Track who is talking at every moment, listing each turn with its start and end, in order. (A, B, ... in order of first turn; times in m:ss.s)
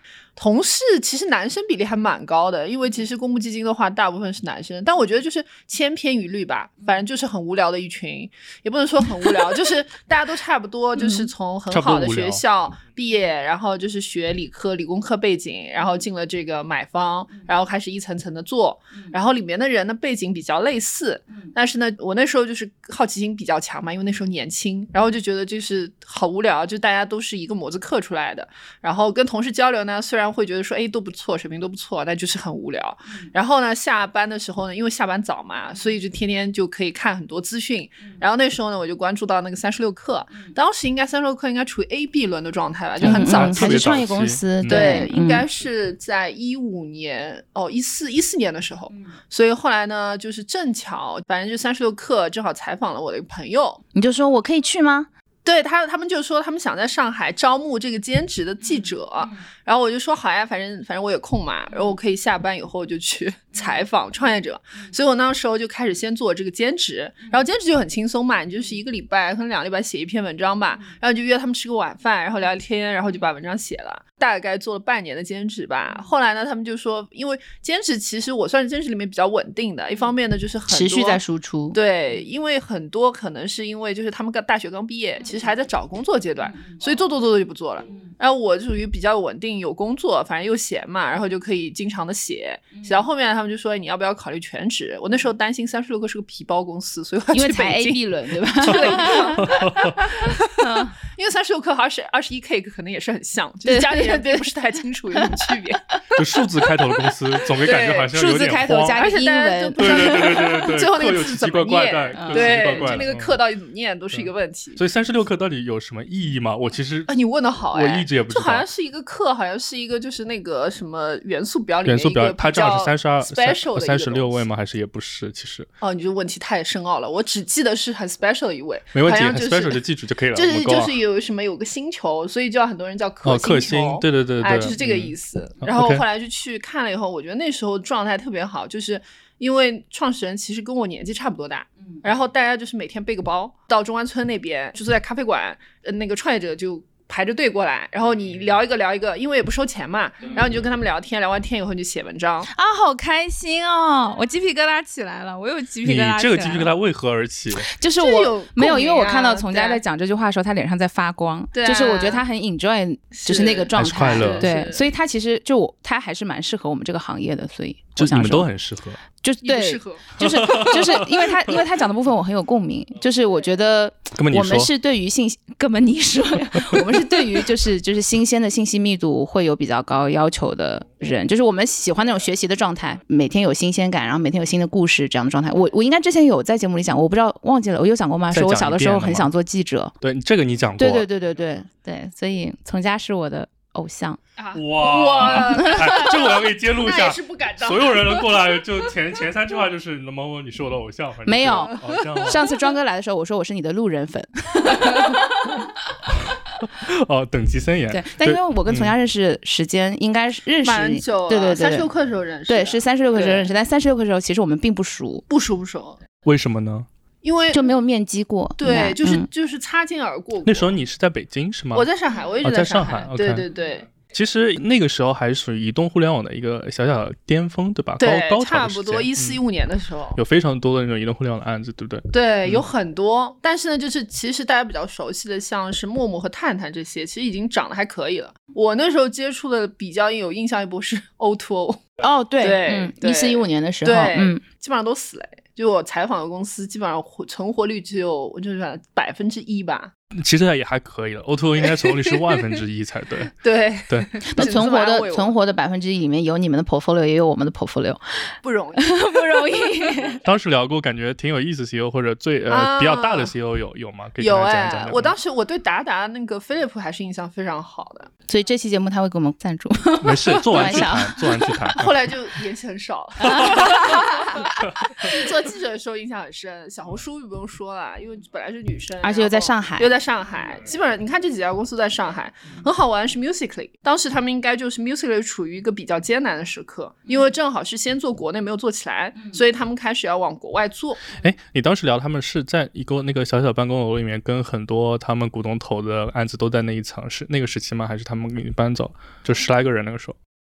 0:00.4-0:44.0 A
0:11.0-0:11.3 B
0:11.7-0:12.4 C
0:43.0-0:45.4 B
0:43.0-0:44.9 C
0:44.7-0:53.8 A
0:53.9-0:55.1 B
0:55.4-1:21.2 A
1:20.7-1:21.8 B
1:21.7-1:40.6 A
1:37.3-1:39.5 B
1:39.4-1:39.9 C
1:40.4-1:41.0 B
1:41.1-1:45.8 A
1:43.6-1:44.5 B
1:46.2-1:49.0 C
1:47.6-1:48.1 A
1:48.1-1:50.4 B
1:49.0-1:54.8 A
1:49.8-1:53.3 C
1:52.2-1:53.0 B
1:54.1-1:57.1 C
1:57.1-2:04.4 A
1:57.7-1:58.7 C
2:01.8-2:05.7 C
2:05.8-2:09.8 A
2:08.9-2:11.0 C
2:10.3-2:32.5 A
2:13.2-2:16.0 C
2:32.5-2:36.7 B
2:35.8-2:37.7 C
2:37.6-2:48.5 B
2:38.0-2:39.8 A
2:41.5-2:42.2 A
2:43.1-2:44.8 A
2:43.7-2:44.5 C
2:48.0-2:49.0 C
2:49.2-3:09.9 B
2:49.4-2:50.1 A
2:50.2-2:51.6 C
2:54.2-2:54.7 C
3:08.3-3:09.3 C
3:10.0-3:11.1 C
3:10.8-3:14.2 B
3:14.4-3:18.6 A
3:14.5-3:22.4 C
3:21.3-3:25.7 B
3:21.9-3:22.2 A
3:26.3-3:28.9 C
3:27.9-3:31.9 B
3:30.6-3:33.5 A
3:32.5-3:35.2 B
3:35.3-3:36.0 A
3:36.2-3:36.9 C
3:37.2-3:37.6 A
3:37.5-3:39.3 B
3:38.6-3:40.8 A
3:40.5-3:41.9 C
3:41.7-3:43.9 A
3:42.4-3:43.5 C
3:44.0-3:49.4 C
3:48.0-3:50.2 A
3:50.2-3:52.6 C
3:52.1-4:01.8 A
4:02.0-4:04.4 B
4:02.4-4:09.9 A
4:10.2-4:13.4 C
4:11.6-4:12.4 A
4:13.4-4:15.4 A
4:14.3-4:20.2 B
4:18.4-4:19.6 A
4:20.2-4:25.1 C
4:22.5-4:23.3 A
4:24.2-4:28.1 A
4:28.3-4:31.7 B
4:30.0-4:32.1 C
4:30.6-4:30.8 A
4:31.7-4:51.1 A
4:33.2-4:34.5 B
4:33.3-4:33.8 C
4:39.0-4:39.9 B
4:51.1-5:00.2 C